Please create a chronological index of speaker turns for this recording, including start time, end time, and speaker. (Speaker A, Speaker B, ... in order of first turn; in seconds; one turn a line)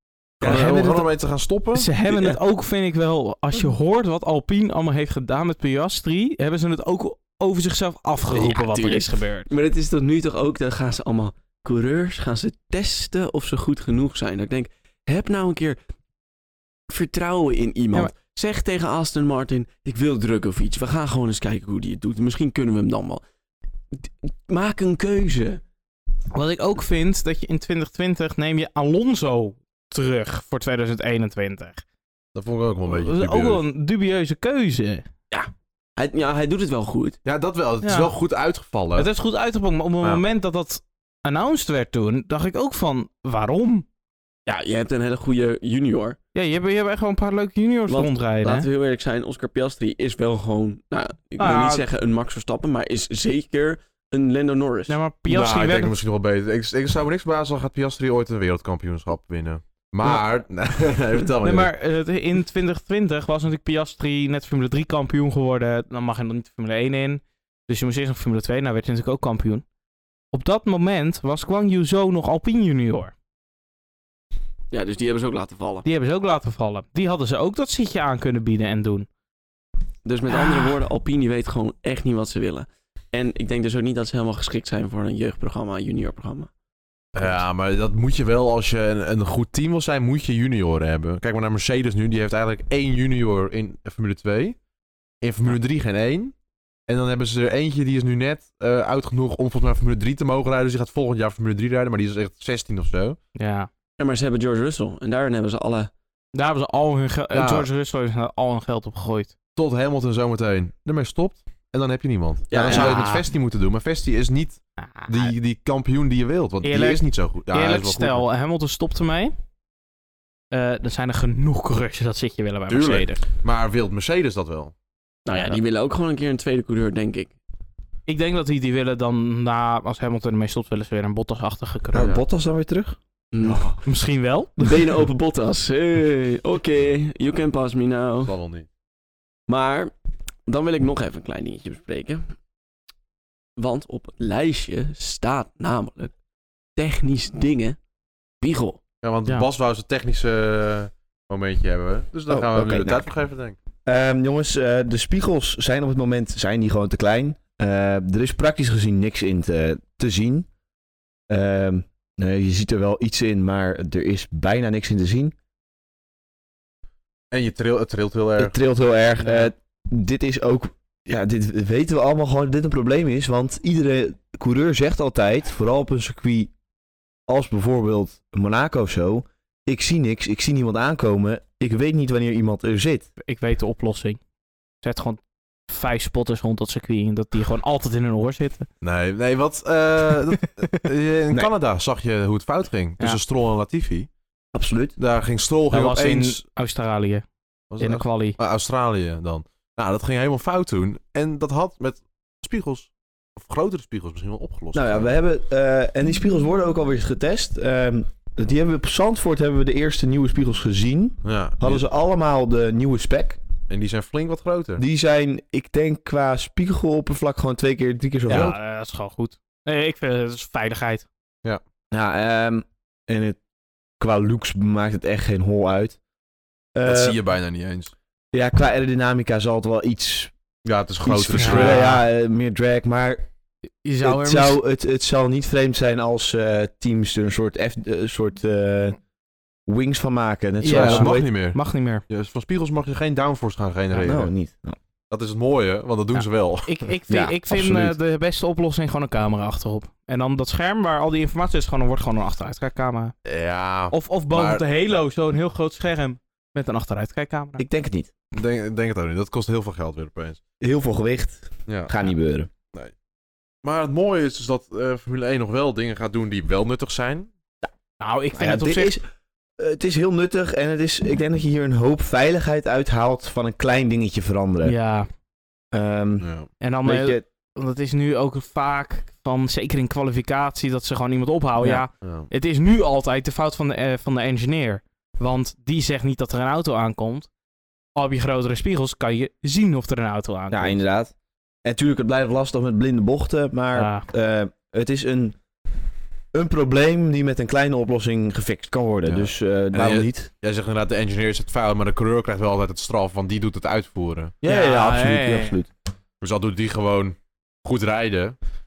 Speaker A: 0.4-1.9
Speaker B: 0.4-1.1
Speaker B: 1.7-9.5
Speaker C: 2.1-2.4
Speaker C: 8.3-15.8
Speaker C: 16.9-23.2
Speaker C: 23.9-25.6
Speaker B: 26.3-31.8
Speaker A: 32.3-33.6
Speaker B: 32.9-35.1
Speaker C: 35.3-37.2
Speaker A: 37.2-39.1
Speaker B: 37.8-38.1
Speaker B: 39.0-43.9
Speaker C: 44.5-46.2
Speaker B: 46.3-48.7
Speaker C: 47.9-55.0
Speaker B: 51.4-51.9
Speaker B: 54.9-55.9
Speaker A: 55.3-61.7
Speaker B: 61.4-69.6
Speaker B: 70.3-73.1
Speaker C: 74.7-75.8
Speaker B: 75.8-79.1
Speaker C: 80.0-86.5
Speaker B: 80.3-80.7
Speaker A: 87.1-94.6
Speaker A: 95.2-96.3
Speaker A: 96.9-103.2
Speaker B: 103.3-103.7
Speaker C: 104.0-105.9
Speaker B: 106.3-109.3
Speaker A: 107.3-107.7
Speaker A: 109.5-118.2
Speaker C: 112.5-113.0
Speaker B: 112.7-113.3
Speaker B: 114.8-115.3
Speaker B: 116.6-119.3
Speaker B: 120.5-123.2
Speaker A: 122.7-124.7
Speaker C: 125.2-127.3
Speaker B: 128.1-132.2
Speaker D: 131.9-132.9
Speaker C: 133.3-133.8
Speaker B: 133.8-134.9
Speaker C: 134.6-138.3
Speaker A: 138.2-138.7
Speaker C: 139.5-139.9
Speaker C: 140.5-142.3
Speaker C: 143.6-146.1
Speaker C: 146.8-147.8
Speaker C: 148.4-148.8
Speaker A: 149.0-153.6
Speaker D: 152.3-153.1
Speaker D: 153.8-160.5
Speaker D: 161.3-165.3
Speaker A: 167.3-168.5
Speaker D: 168.4-176.5
Speaker B: 169.2-169.5
Speaker D: 177.3-183.1
Speaker B: 183.2-184.2
Speaker B: 184.8-188.7
Speaker A: 188.8-194.1
Speaker D: 194.5-194.9
Speaker A: 195.0-196.4
Speaker B: 195.7-197.2
Speaker A: 197.7-205.1
Speaker B: 197.8-198.4
Speaker D: 204.7-213.4
Speaker A: 211.2-211.8
Speaker A: 213.7-214.8
Speaker D: 214.8-218.6
Speaker B: 218.3-221.1
Speaker A: 218.3-218.6
Speaker D: 221.9-223.4
Speaker D: 224.0-226.0
Speaker D: 226.7-227.2
Speaker A: 226.8-227.9
Speaker D: 228.3-230.3
Speaker A: 230.6-231.9
Speaker D: 231.0-233.3
Speaker B: 231.3-232.0
Speaker B: 233.8-234.6
Speaker D: 234.0-239.0
Speaker D: 239.7-241.2
Speaker B: 240.6-242.0
Speaker A: 240.7-244.3
Speaker D: 243.9-244.8
Speaker A: 245.1-246.9
Speaker B: 246.1-253.1
Speaker D: 247.1-247.9
Speaker A: 253.2-254.6
Speaker B: 253.9-257.6
Speaker D: 257.6-258.1
Speaker A: 258.3-260.4
Speaker D: 260.6-262.5
Speaker A: 261.7-261.9
Speaker A: 263.6-267.3
Speaker B: 268.0-268.9
Speaker D: 268.3-269.0
Speaker D: 269.6-274.7
Speaker B: 274.6-275.1
Speaker D: 275.7-276.3
Speaker A: 276.2-276.5
Speaker B: 276.6-287.3
Speaker D: 276.8-277.2
Speaker D: 281.6-281.8
Speaker A: 282.0-282.3
Speaker B: 287.9-290.8
Speaker D: 290.5-295.4
Speaker B: 293.7-294.0
Speaker D: 296.3-300.3
Speaker A: 299.1-304.3
Speaker D: 304.4-305.7
Speaker B: 304.4-305.6
Speaker A: 306.2-308.4